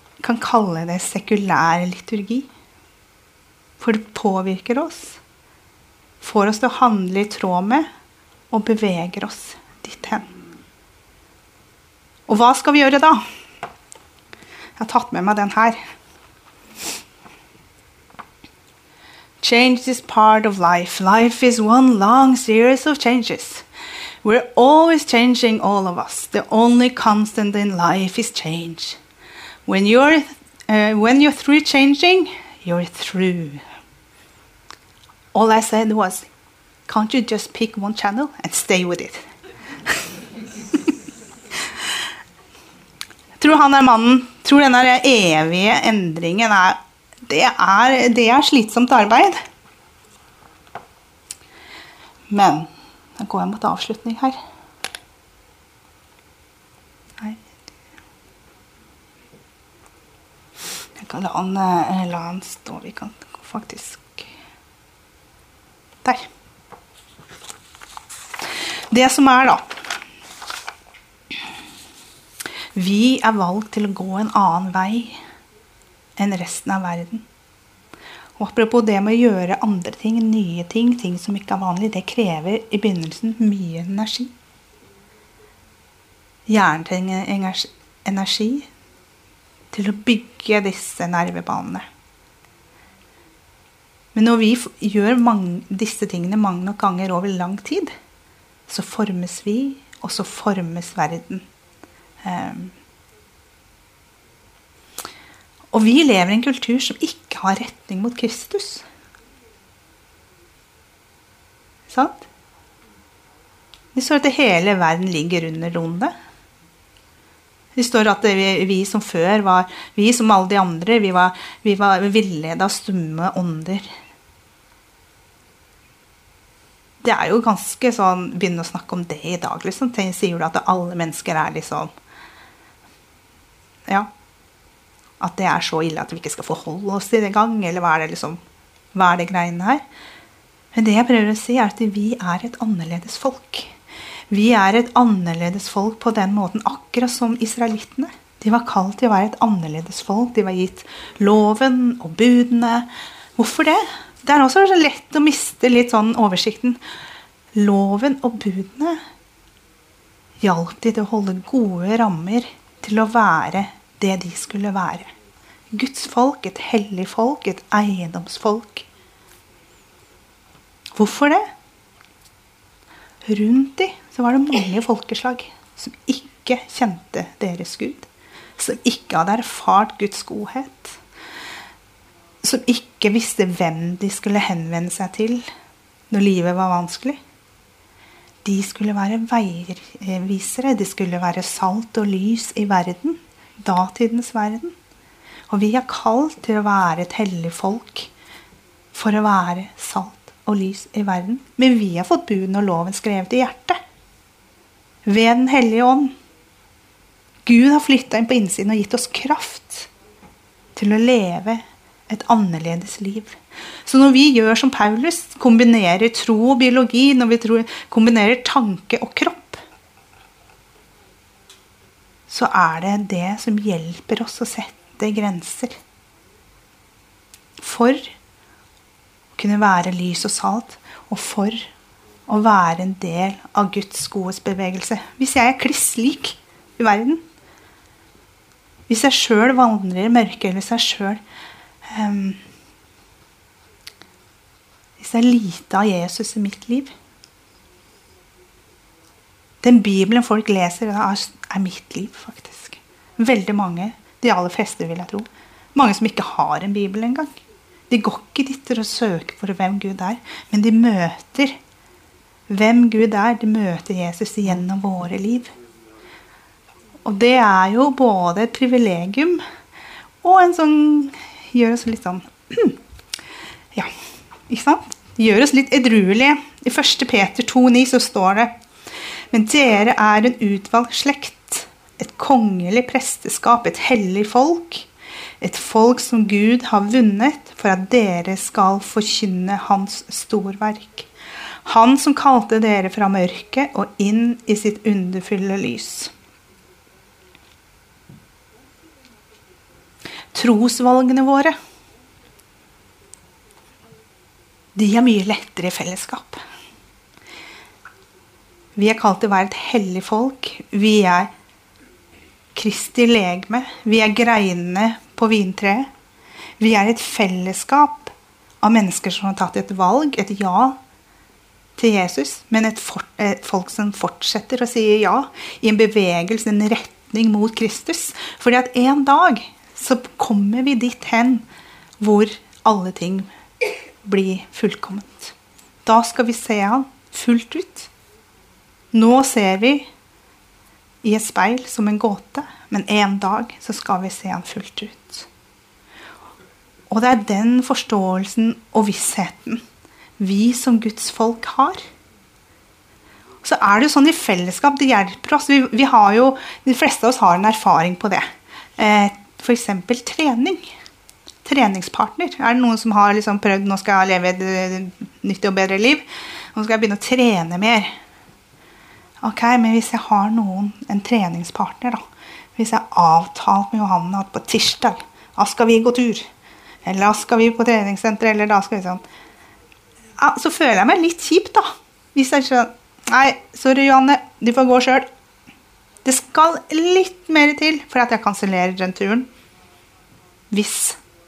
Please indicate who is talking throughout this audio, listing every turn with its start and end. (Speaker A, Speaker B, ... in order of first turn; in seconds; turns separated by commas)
Speaker A: 0.2-2.5, Speaker A: 3.8-5.2, Speaker A: 6.2-7.9, Speaker A: 8.5-10.3, Speaker A: 12.3-13.2, Speaker A: 14.8-15.8, Speaker A: 19.4-23.6, Speaker A: 24.2-29.0, Speaker A: 29.6-33.6, Speaker A: 35.3-36.3, Speaker A: 36.9-39.2, Speaker A: 43.4-49.4, Speaker A: 52.3-54.4, Speaker A: 61.0-64.3, Speaker A: 68.9-69.6, Speaker A: 72.7-75.2, Speaker A: 76.2-77.2, Speaker A: 78.4-84.3, Speaker A: 86.5-88.7, Speaker A: 89.7-91.8, Speaker A: 94.1-97.9, Speaker A: 98.7-101.4, Speaker A: 102.2-102.7, Speaker A: 105.7-108.8, Speaker A: 111.9-112.3, Speaker A: 113.9-116.1, Speaker A: 117.8-123.8, Speaker A: 127.0-131.9, Speaker A: 135.2-138.4, Speaker A: 138.9-139.8, Speaker A: 140.7-143.7, Speaker A: 144.3-156.8, Speaker A: 157.5-159.0, Speaker A: 160.4-165.1, Speaker A: 165.7-168.9, Speaker A: 171.0-171.4, Speaker A: 173.2-181.0, Speaker A: 182.4-185.4, Speaker A: 186.1-187.2, Speaker A: 188.4-194.7, Speaker A: 195.5-198.1, Speaker A: 198.9-203.8, Speaker A: 205.0-206.1, Speaker A: 207.4-209.9, Speaker A: 210.8-219.6, Speaker A: 222.3-225.8, Speaker A: 227.6-228.1, Speaker A: 229.3-231.7, Speaker A: 232.3-237.2, Speaker A: 238.9-241.2, Speaker A: 241.9-242.4, Speaker A: 245.0-246.9, Speaker A: 249.6-257.4, Speaker A: 257.9-261.5, Speaker A: 262.5-265.5, Speaker A: 267.0-269.4, Speaker A: 270.2-272.8, Speaker A: 274.5-278.5, Speaker A: 279.3-284.9, Speaker A: 285.4-291.1, Speaker A: 291.6-296.1, Speaker A: 300.3-301.5, Speaker A: 304.8-306.4, Speaker A: 308.8-311.3, Speaker A: 312.5-315.9, Speaker A: 316.6-320.8, Speaker A: 321.8-331.4, Speaker A: 332.0-333.3, Speaker A: 334.0-337.9, Speaker A: 338.9-339.9, Speaker A: 341.0-345.3, Speaker A: 346.9-349.6, Speaker A: 350.2-351.8, Speaker A: 353.4-358.2, Speaker A: 358.8-360.7, Speaker A: 361.4-366.0, Speaker A: 366.5-367.9, Speaker A: 369.2-372.0, Speaker A: 372.6-376.2, Speaker A: 376.8-379.0, Speaker A: 380.2-385.1, Speaker A: 386.0-389.3, Speaker A: 390.5-391.0